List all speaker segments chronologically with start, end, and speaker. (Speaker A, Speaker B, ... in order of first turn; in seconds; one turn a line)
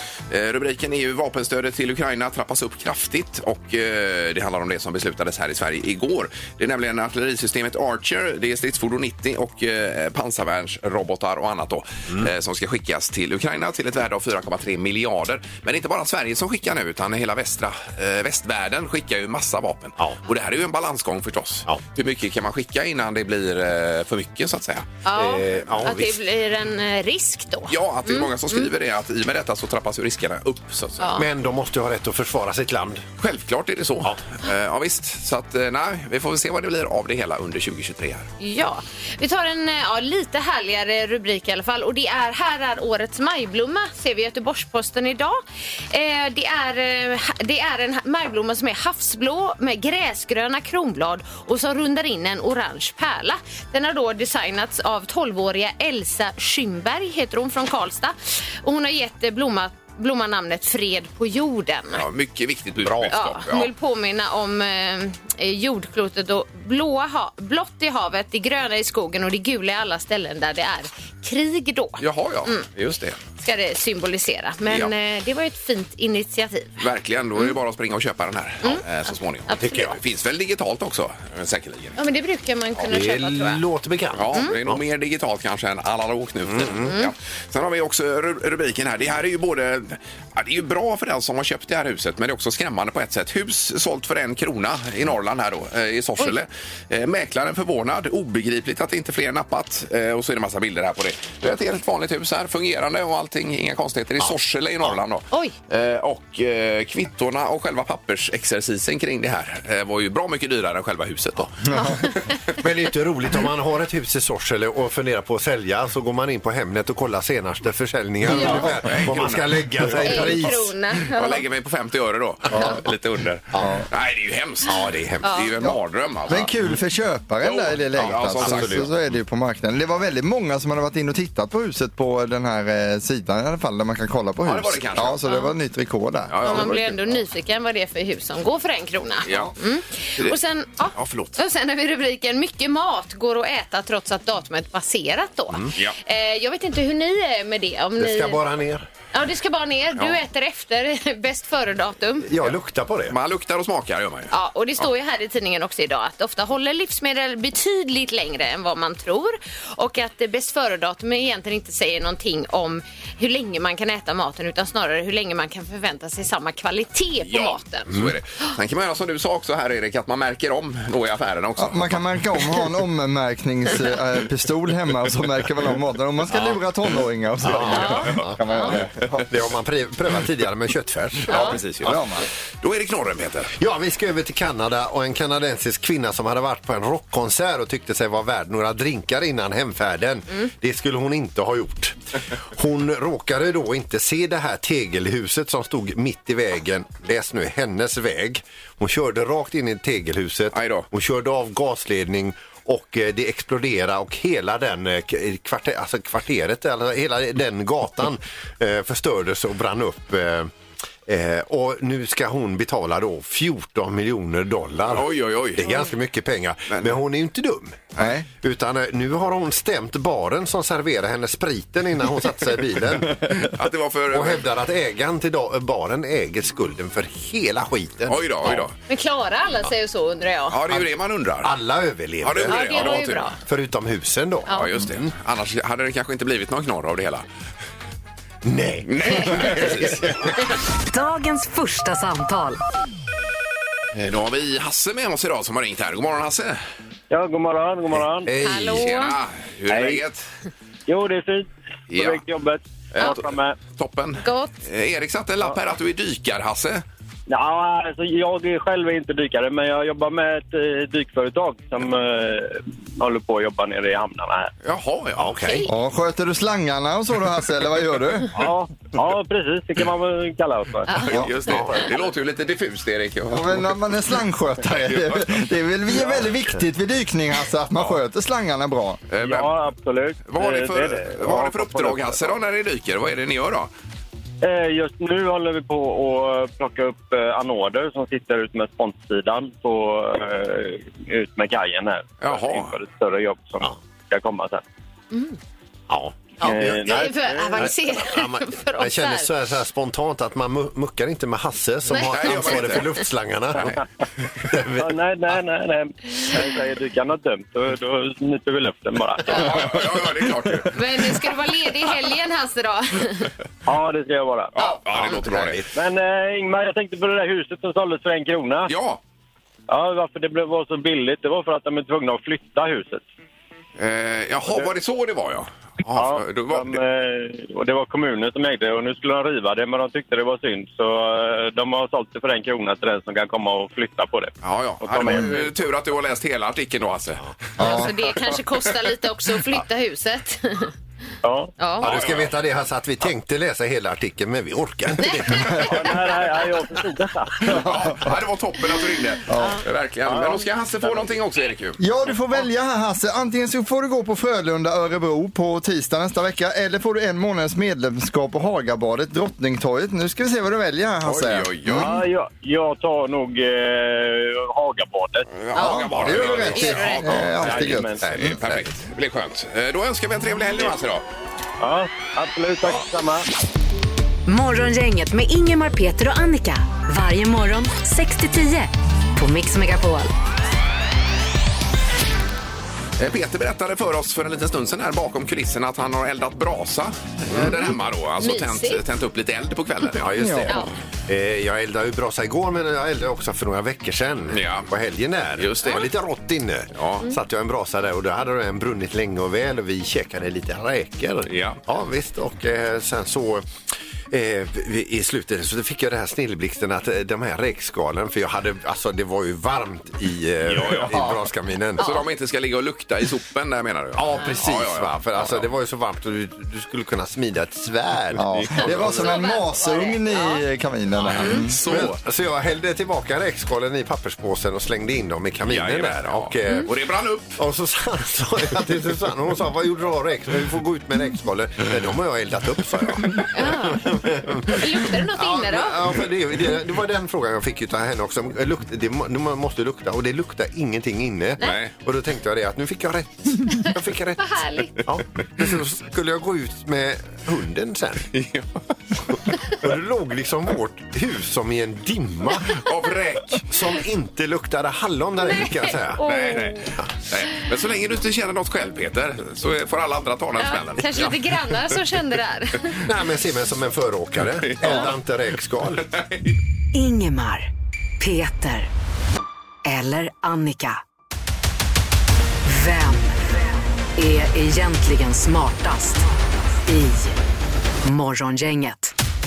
Speaker A: 0.3-24.9
Speaker B: 25.1-28.7
Speaker C: 25.1-26.2
Speaker A: 27.7-31.1
Speaker B: 31.0-31.2
Speaker C: 31.1-33.0
Speaker A: 33.2-38.3
Speaker B: 38.4-62.0
Speaker A: 61.9-63.7
Speaker C: 62.8-63.2
Speaker B: 63.1-72.7
Speaker A: 72.0-73.2
Speaker B: 73.4-76.8
Speaker A: 76.8-82.0
Speaker B: 79.5-80.0
Speaker C: 79.6-80.0
Speaker B: 82.0-83.6
Speaker C: 82.9-84.8
Speaker A: 84.2-111.5
Speaker C: 86.5-86.9
Speaker B: 111.7-112.5
Speaker C: 112.6-120.7
Speaker A: 118.3-120.4
Speaker B: 118.3-118.7
Speaker B: 120.0-121.4
Speaker A: 121.0-126.5
Speaker C: 122.5-122.8
Speaker D: 123.6-123.9
Speaker C: 124.7-125.5
Speaker B: 125.2-125.5
Speaker D: 126.3-136.6
Speaker A: 127.4-128.9
Speaker C: 128.0-128.9
Speaker A: 134.4-135.2
Speaker B: 135.2-135.5
Speaker A: 136.3-137.2
Speaker B: 136.4-148.4
Speaker A: 139.3-139.5
Speaker A: 140.9-141.4
Speaker C: 148.0-148.9
Speaker B: 149.1-152.3
Speaker C: 152.2-153.2
Speaker A: 153.1-154.3
Speaker B: 154.3-167.9
Speaker A: 167.2-172.5
Speaker D: 171.6-179.3
Speaker C: 177.4-178.4
Speaker B: 177.7-178.7
Speaker C: 179.2-181.6
Speaker B: 181.3-181.6
Speaker D: 181.3-182.3
Speaker A: 181.3-183.5
Speaker C: 183.6-210.5
Speaker A: 200.5-200.9
Speaker C: 211.1-217.9
Speaker A: 214.9-215.6
Speaker D: 218.0-218.3
Speaker C: 218.4-223.5
Speaker A: 223.3-224.5
Speaker C: 224.1-228.7
Speaker A: 228.1-228.7
Speaker B: 228.9-230.6
Speaker A: 230.5-231.6
Speaker C: 231.4-235.1
Speaker A: 232.2-233.3
Speaker B: 232.5-233.4
Speaker B: 234.5-234.7
Speaker A: 234.5-237.2
Speaker C: 238.4-240.4
Speaker A: 238.9-240.1
Speaker E: 240.8-242.6
Speaker A: 243.9-246.6
Speaker F: 247.1-248.3
Speaker C: 248.2-248.9
Speaker B: 248.4-249.2
Speaker A: 248.8-250.3
Speaker F: 249.7-250.1
Speaker F: 250.9-253.6
Speaker A: 251.9-252.2
Speaker A: 252.9-256.8
Speaker B: 254.2-254.5
Speaker F: 257.3-264.5
Speaker A: 264.6-265.3
Speaker C: 265.2-265.7
Speaker B: 265.4-265.7
Speaker D: 265.7-268.5
Speaker F: 268.3-271.1
Speaker A: 270.9-273.7
Speaker C: 271.4-271.8
Speaker D: 273.3-279.0
Speaker A: 274.8-275.5
Speaker A: 279.1-279.5
Speaker F: 279.2-282.4
Speaker A: 280.3-283.7
Speaker F: 284.4-294.6
Speaker A: 292.2-292.8
Speaker B: 295.1-295.4
Speaker C: 295.9-297.0
Speaker B: 296.4-299.3
Speaker F: 296.5-297.7
Speaker C: 297.6-303.7
Speaker B: 301.9-302.9
Speaker A: 301.9-302.9
Speaker C: 304.4-305.0
Speaker F: 304.8-309.7
Speaker A: 309.3-310.8
Speaker B: 310.7-313.3
Speaker F: 313.7-314.5
Speaker A: 314.6-315.7
Speaker C: 314.9-315.7
Speaker F: 315.7-318.7
Speaker A: 318.7-319.0
Speaker F: 319.7-323.0
Speaker A: 323.8-326.8
Speaker F: 325.9-335.5
Speaker A: 334.4-337.7
Speaker D: 337.6-337.9
Speaker B: 337.6-340.7
Speaker F: 341.2-341.5
Speaker B: 341.6-341.9
Speaker C: 341.8-345.8
Speaker A: 341.8-342.3
Speaker B: 345.0-345.6
Speaker F: 345.6-347.6
Speaker A: 347.5-351.8
Speaker D: 347.5-348.0
Speaker D: 349.3-349.6
Speaker B: 349.4-349.6
Speaker F: 350.1-350.9
Speaker D: 351.8-362.0
Speaker A: 361.0-361.9
Speaker F: 361.8-365.3
Speaker A: 365.3-371.1
Speaker B: 365.5-367.3
Speaker D: 365.6-368.0
Speaker F: 367.2-368.1
Speaker C: 368.0-368.6
Speaker F: 371.6-373.3
Speaker E: 374.3-380.1
Speaker A: 383.0-390.6
Speaker C: 387.3-387.6
Speaker B: 387.4-388.8
Speaker C: 389.9-403.5
Speaker D: 390.1-390.5
Speaker A: 394.3-394.7
Speaker A: 395.4-395.9
Speaker A: 396.8-397.1
Speaker A: 401.3-401.6
Speaker C: 404.1-411.9
Speaker A: 410.5-411.0
Speaker A: 411.8-415.5
Speaker B: 411.8-412.1
Speaker C: 413.9-419.1
Speaker D: 418.2-421.6
Speaker A: 418.3-418.8
Speaker B: 418.8-420.5
Speaker A: 421.1-422.0
Speaker C: 421.6-426.8
Speaker A: 425.5-427.4
Speaker C: 427.4-448.1
Speaker A: 432.9-433.2
Speaker B: 433.3-435.9
Speaker A: 441.4-441.7
Speaker B: 444.2-444.8
Speaker A: 448.1-448.6
Speaker C: 449.6-452.6
Speaker A: 452.5-453.5
Speaker C: 453.4-456.1
Speaker B: 455.2-456.7
Speaker A: 456.0-461.8
Speaker B: 460.4-462.8
Speaker C: 462.8-465.9
Speaker A: 464.3-464.9
Speaker A: 465.9-466.4
Speaker E: 466.7-468.7
Speaker E: 469.6-470.8
Speaker E: 472.4-473.2
Speaker E: 474.0-476.1
Speaker E: 476.6-477.2
Speaker E: 477.8-478.9